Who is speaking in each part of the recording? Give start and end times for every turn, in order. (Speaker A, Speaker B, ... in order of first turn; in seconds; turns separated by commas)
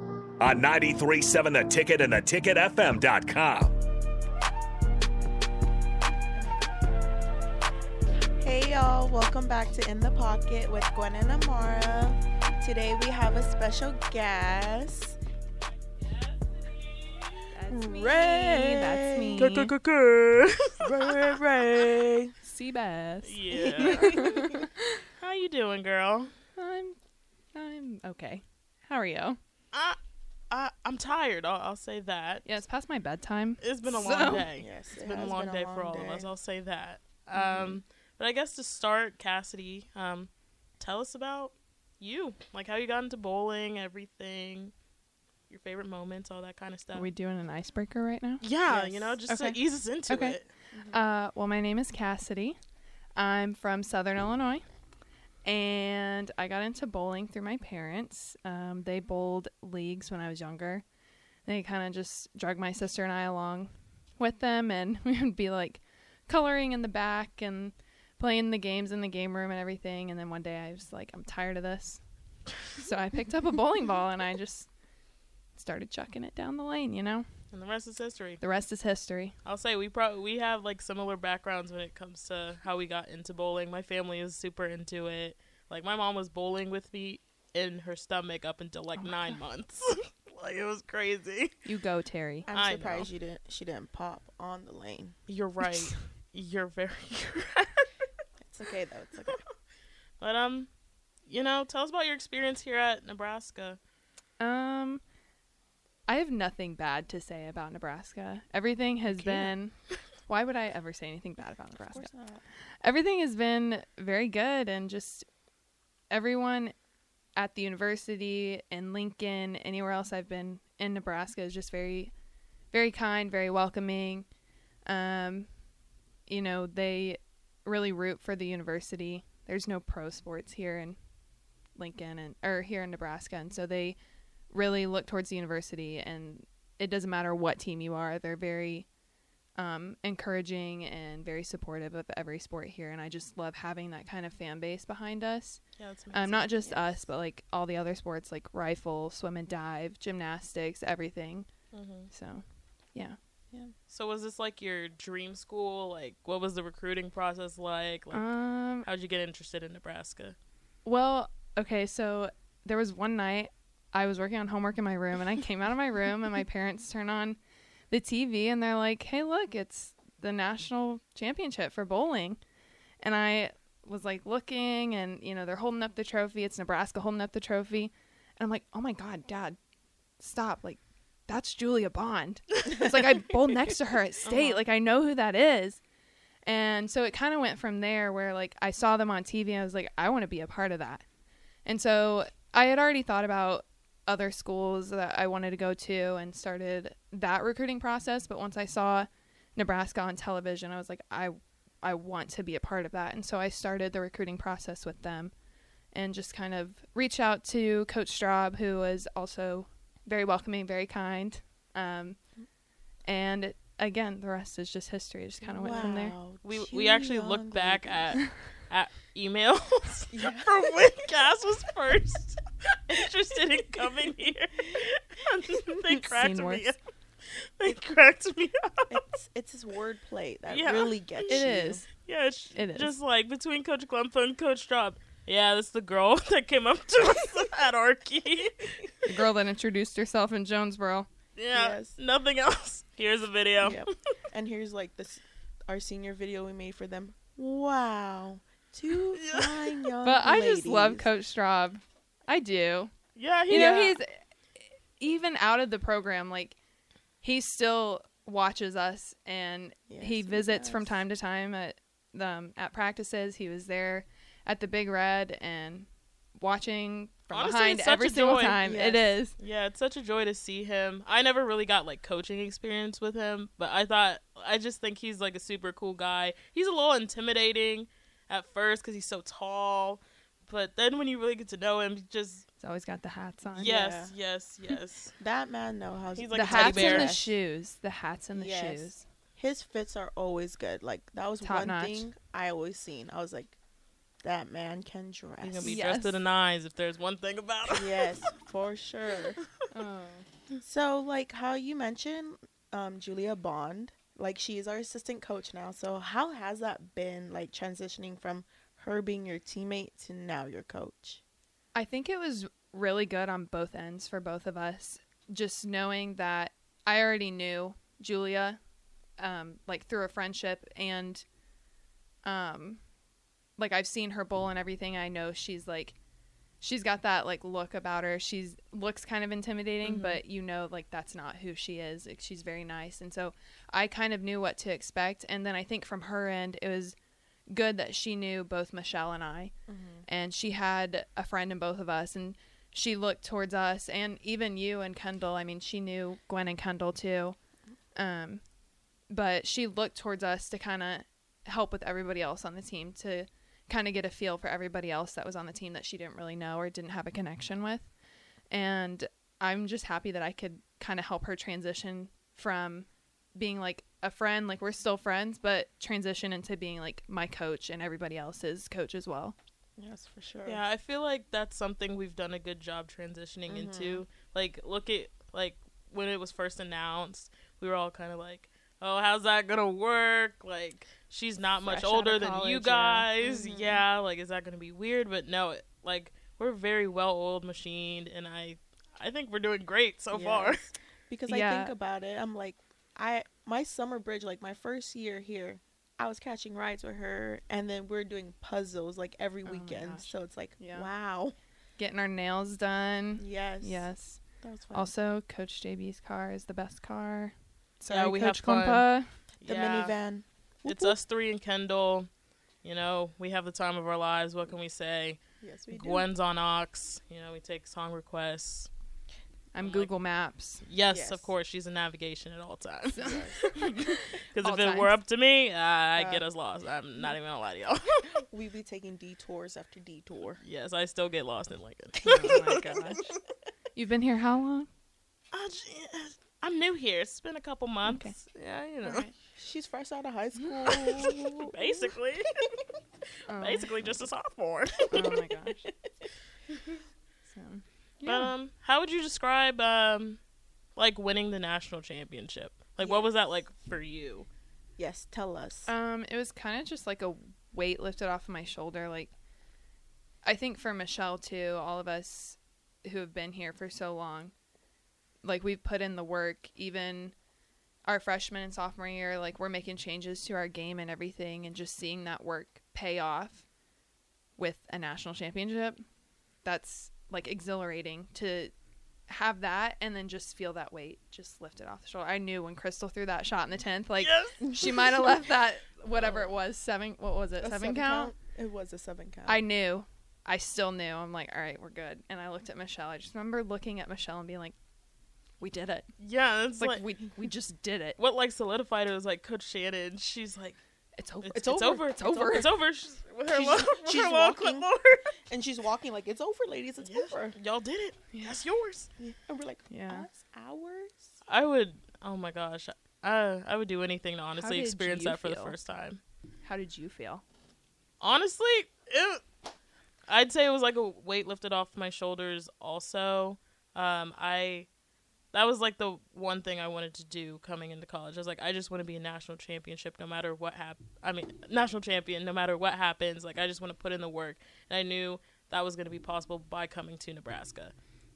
Speaker A: 0.4-3.8, Speaker B: 8.4-15.2, Speaker C: 17.5-19.7, Speaker B: 17.7-19.5, Speaker D: 19.4-21.9, Speaker B: 20.8-22.3, Speaker C: 22.4-25.0, Speaker D: 23.2-24.4, Speaker B: 23.5-24.6, Speaker D: 25.2-26.3, Speaker C: 26.6-27.0, Speaker C: 27.5-29.4, Speaker D: 29.7-30.0, Speaker D: 30.5-32.5, Speaker C: 32.5-34.5, Speaker D: 33.6-44.7, Speaker B: 34.5-36.3, Speaker D: 45.5-47.1, Speaker C: 46.9-48.4, Speaker D: 48.4-50.5, Speaker B: 48.7-49.2, Speaker C: 49.3-50.4, Speaker B: 50.7-51.0, Speaker C: 50.9-52.6, Speaker C: 53.2-54.6, Speaker C: 55.5-60.8, Speaker C: 61.5-72.0, Speaker C: 72.7-74.7, Speaker C: 75.5-77.3, Speaker D: 77.5-78.4, Speaker C: 78.4-79.4, Speaker D: 79.5-91.5, Speaker C: 89.0-89.4, Speaker C: 91.7-92.5, Speaker B: 92.5-95.2, Speaker D: 92.5-93.1, Speaker D: 95.3-97.9, Speaker B: 98.4-99.4, Speaker D: 100.2-100.7, Speaker D: 101.3-103.8, Speaker C: 104.4-105.0, Speaker C: 106.1-112.1, Speaker D: 109.2-109.5, Speaker B: 111.9-112.4, Speaker C: 112.8-115.3, Speaker C: 116.1-116.7, Speaker C: 117.4-122.1, Speaker C: 122.7-124.3, Speaker C: 124.9-125.5, Speaker C: 126.3-131.0, Speaker C: 131.8-134.0, Speaker C: 134.5-138.9, Speaker C: 139.6-145.6, Speaker D: 145.8-146.5, Speaker C: 146.1-151.5, Speaker D: 151.7-152.1, Speaker C: 152.1-153.2, Speaker D: 153.9-158.3, Speaker C: 158.1-158.9, Speaker D: 158.8-160.4, Speaker C: 160.8-167.4, Speaker C: 167.9-172.4, Speaker C: 173.0-179.6, Speaker C: 180.2-185.8, Speaker B: 184.3-184.6, Speaker C: 186.4-191.0, Speaker C: 191.7-205.3, Speaker C: 205.9-212.2, Speaker C: 213.1-216.2, Speaker B: 215.4-218.1, Speaker D: 216.4-226.8, Speaker B: 220.1-220.5, Speaker C: 225.9-226.7, Speaker D: 227.4-229.0, Speaker B: 228.9-231.8, Speaker D: 230.5-238.9, Speaker C: 231.3-231.9, Speaker C: 232.5-232.9, Speaker C: 239.1-241.1, Speaker D: 241.4-243.9, Speaker B: 241.5-242.0, Speaker B: 243.6-251.1, Speaker D: 249.1-249.9, Speaker C: 250.0-252.9, Speaker D: 253.2-254.0, Speaker C: 253.5-254.2, Speaker B: 253.5-253.9, Speaker C: 255.0-256.6, Speaker C: 257.2-265.9, Speaker B: 259.9-260.9, Speaker C: 266.4-269.4, Speaker D: 267.3-268.6, Speaker B: 268.6-269.1, Speaker D: 269.4-282.4, Speaker C: 282.6-283.7, Speaker B: 283.6-284.1, Speaker D: 283.6-285.1, Speaker B: 285.2-287.3, Speaker D: 286.2-287.1, Speaker C: 286.3-289.0, Speaker B: 288.3-293.6, Speaker C: 291.4-292.1, Speaker B: 294.2-295.8, Speaker D: 295.4-298.1, Speaker C: 295.6-296.2, Speaker B: 297.7-299.4, Speaker C: 299.7-300.3, Speaker B: 300.6-311.2, Speaker C: 311.8-318.6, Speaker C: 319.2-321.2, Speaker C: 322.2-322.8, Speaker C: 323.6-326.0, Speaker C: 326.6-337.0, Speaker D: 329.8-330.2, Speaker C: 337.5-339.5, Speaker B: 339.7-340.1, Speaker C: 340.1-347.4, Speaker C: 348.0-348.4, Speaker C: 349.1-357.9, Speaker C: 358.5-369.4, Speaker B: 369.8-370.6, Speaker D: 370.4-390.7, Speaker B: 373.5-374.1, Speaker C: 381.6-383.1, Speaker B: 383.2-383.8, Speaker B: 390.1-401.4, Speaker C: 391.3-391.7, Speaker C: 399.4-400.9, Speaker C: 401.8-404.2, Speaker B: 403.2-403.9, Speaker B: 404.4-404.9, Speaker C: 404.7-409.1, Speaker D: 407.9-408.9, Speaker D: 409.4-410.0, Speaker B: 409.4-410.9, Speaker D: 410.6-412.1, Speaker D: 412.6-418.7, Speaker B: 415.4-416.1, Speaker C: 419.5-420.6, Speaker D: 419.6-419.9, Speaker D: 420.7-428.1, Speaker B: 420.9-421.3, Speaker C: 422.9-424.9, Speaker B: 423.0-423.5, Speaker B: 426.0-426.2, Speaker B: 428.1-430.4, Speaker D: 430.4-432.8, Speaker C: 432.0-433.1, Speaker C: 433.8-434.7, Speaker D: 435.3-439.1, Speaker C: 437.9-438.1, Speaker C: 438.8-439.1, Speaker B: 439.2-441.9, Speaker D: 440.7-442.4, Speaker C: 443.3-443.7, Speaker D: 443.4-445.1, Speaker C: 444.9-445.7, Speaker B: 444.9-445.7, Speaker C: 447.3-448.3, Speaker D: 448.1-450.2, Speaker D: 450.8-454.3, Speaker B: 452.8-453.1, Speaker B: 454.8-455.7, Speaker C: 455.7-459.1, Speaker C: 460.2-464.3, Speaker C: 465.2-467.1, Speaker C: 467.9-473.4, Speaker C: 474.4-475.8, Speaker C: 476.4-478.5, Speaker C: 479.1-488.1, Speaker D: 484.0-484.4, Speaker B: 487.4-489.4, Speaker C: 489.3-494.6, Speaker C: 495.4-495.9, Speaker D: 496.0-496.8, Speaker C: 496.6-498.0, Speaker D: 498.0-500.6, Speaker C: 501.0-502.5, Speaker D: 501.2-505.1, Speaker B: 501.4-502.4, Speaker B: 503.3-504.7, Speaker B: 505.3-507.4, Speaker D: 506.8-508.9, Speaker C: 508.1-508.4, Speaker B: 509.0-511.1, Speaker C: 509.7-510.1, Speaker D: 511.3-516.0, Speaker C: 514.4-515.5, Speaker C: 516.4-517.2, Speaker D: 518.0-519.2, Speaker D: 520.1-524.7, Speaker D: 525.3-537.7